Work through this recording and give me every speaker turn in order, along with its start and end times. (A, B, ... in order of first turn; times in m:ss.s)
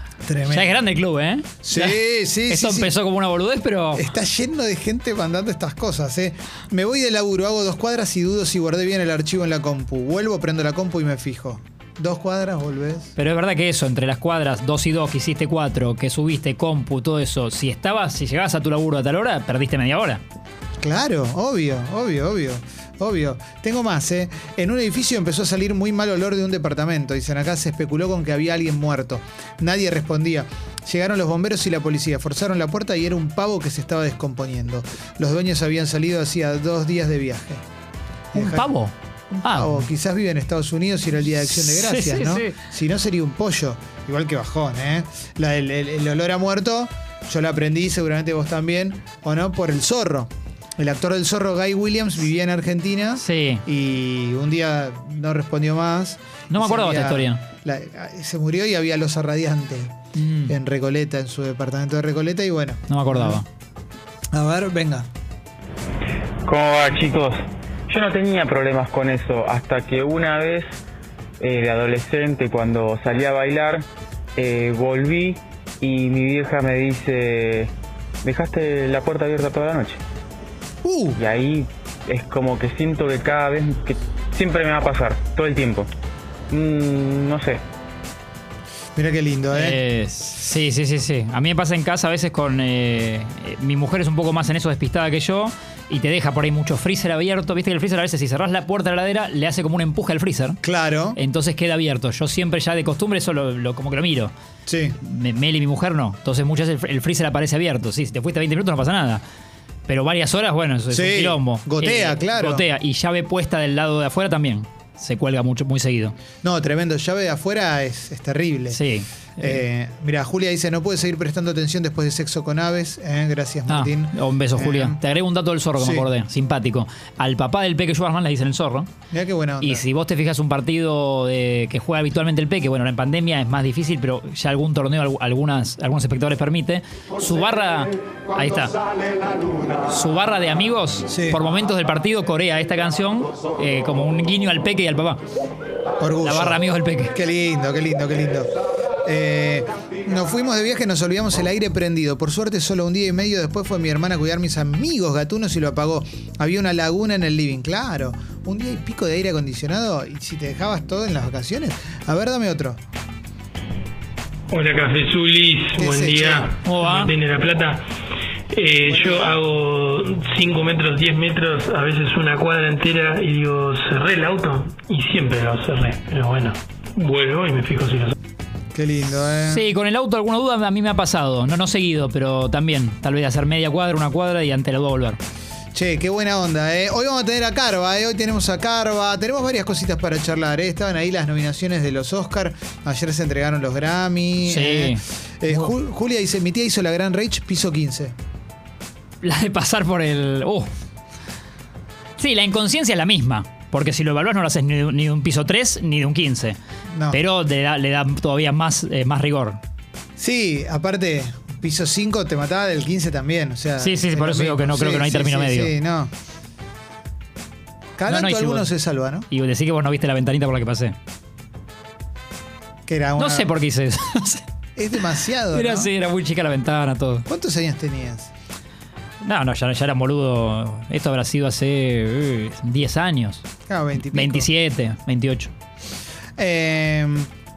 0:00.2-0:00.8 A
0:00.5-0:04.0 B
0:01.6-0:03.0 A
0:04.0-0:13.1 A
0:13.2-0:20.2 B
0:20.8-0:37.6 A
0:38.3-0:38.7 A
0:38.4-0:38.9 B
0:39.3-1:03.4 A
0:39.4-0:39.8 B
0:41.5-0:42.6 B
0:53.2-0:53.6 B
0:56.5-0:57.4 B
1:00.1-1:00.5 B
1:02.9-1:03.5 B
1:04.3-1:05.1 A
1:06.5-1:10.8 C
1:11.4-1:17.7 C
1:18.2-1:20.0 C
1:20.8-1:21.2 A
1:21.2-1:25.9 C
1:26.5-1:27.6 C
1:29.0-1:29.8 A
1:29.5-1:40.6 B
1:40.6-1:41.2 A
1:41.2-1:44.3 B
1:44.7-1:45.0 A
1:45.0-1:49.2 B
1:49.9-1:56.2 B
1:50.9-1:52.6 A
1:56.4-1:58.8 A
1:58.7-1:59.6 B
1:59.4-2:05.0 A
2:03.7-2:08.9 B
2:05.8-2:06.1 A
2:09.1-2:09.8 A
2:09.6-2:18.8 B
2:19.9-2:25.2 B
2:21.1-2:21.4 A
2:26.0-2:26.6 A
2:26.2-2:27.2 B
2:27.1-2:42.8 A
2:44.5-2:47.9 D
2:45.8-2:46.5 A
2:46.6-2:47.1 B
2:48.5-2:58.1 D
2:48.9-2:49.4 A
2:58.7-2:59.6 A
2:59.4-3:05.2 B
3:05.7-3:18.2 A
3:14.5-3:15.7 B
3:19.2-3:20.7 B
3:22.2-3:26.6 B
3:26.9-3:27.2 A
3:27.1-3:29.6 B
3:30.2-3:36.1 A
3:33.8-3:35.7 B
3:38.0-3:39.3 A
3:38.1-3:38.7 B
3:39.3-3:40.9 B
3:42.9-3:43.5 A
3:43.2-3:44.4 B
3:44.8-3:45.9 A
3:45.5-3:47.3 B
3:47.3-3:48.3 A
3:49.2-3:53.4 B
3:53.7-3:54.5 A
3:54.1-3:55.5 B
3:56.4-3:57.3 A